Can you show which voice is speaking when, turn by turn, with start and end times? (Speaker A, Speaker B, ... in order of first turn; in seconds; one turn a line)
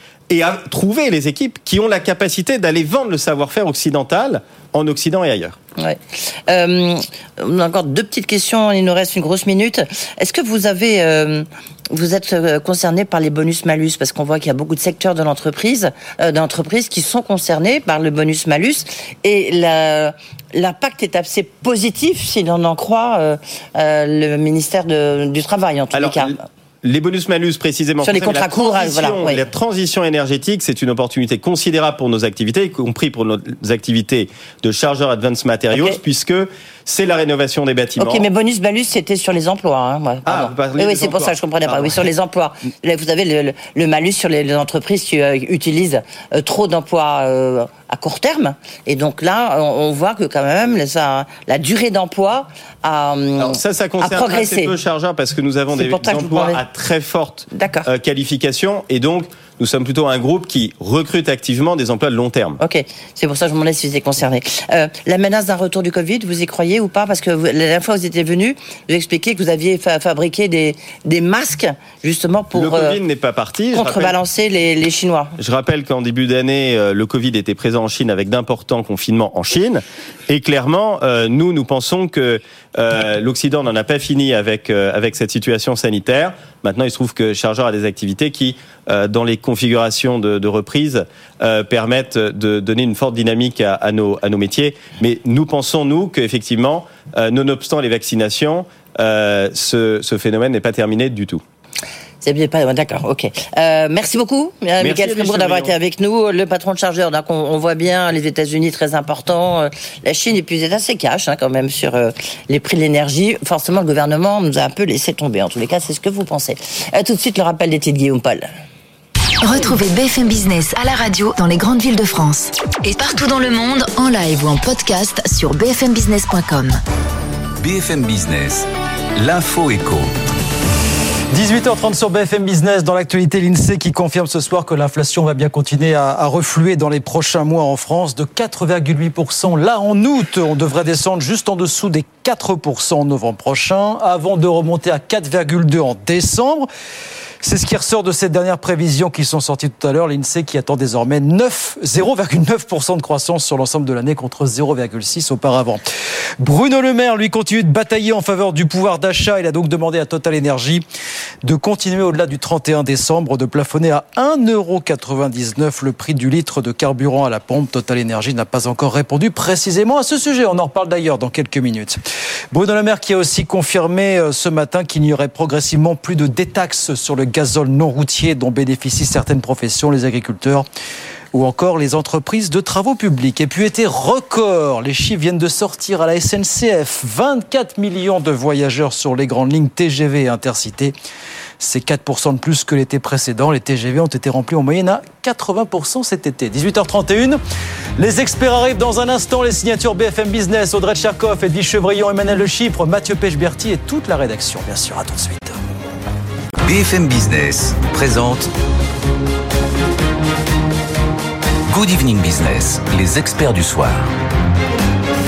Speaker A: 0.3-5.5
Speaker B: 5.8-26.3
Speaker A: 25.9-38.2
Speaker B: 28.0-29.4
Speaker B: 35.7-36.0
Speaker B: 38.0-54.7
Speaker A: 40.2-42.0
Speaker A: 53.4-62.6
Speaker B: 55.7-56.6
Speaker B: 57.5-57.9
Speaker B: 62.6-73.0
Speaker A: 72.5-74.2
Speaker B: 73.7-75.4
Speaker A: 75.4-101.4
Speaker B: 102.2-118.5
Speaker A: 104.8-105.7
Speaker C: 119.4-126.8
Speaker D: 127.6-130.1
Speaker E: 131.3-146.7
Speaker E: 147.4-155.8
Speaker E: 156.4-160.8
Speaker E: 161.4-172.0
Speaker E: 172.5-180.7
Speaker E: 181.3-190.9
Speaker E: 191.6-197.4
Speaker E: 198.0-205.6
Speaker D: 206.6-208.5
Speaker D: 211.7-214.1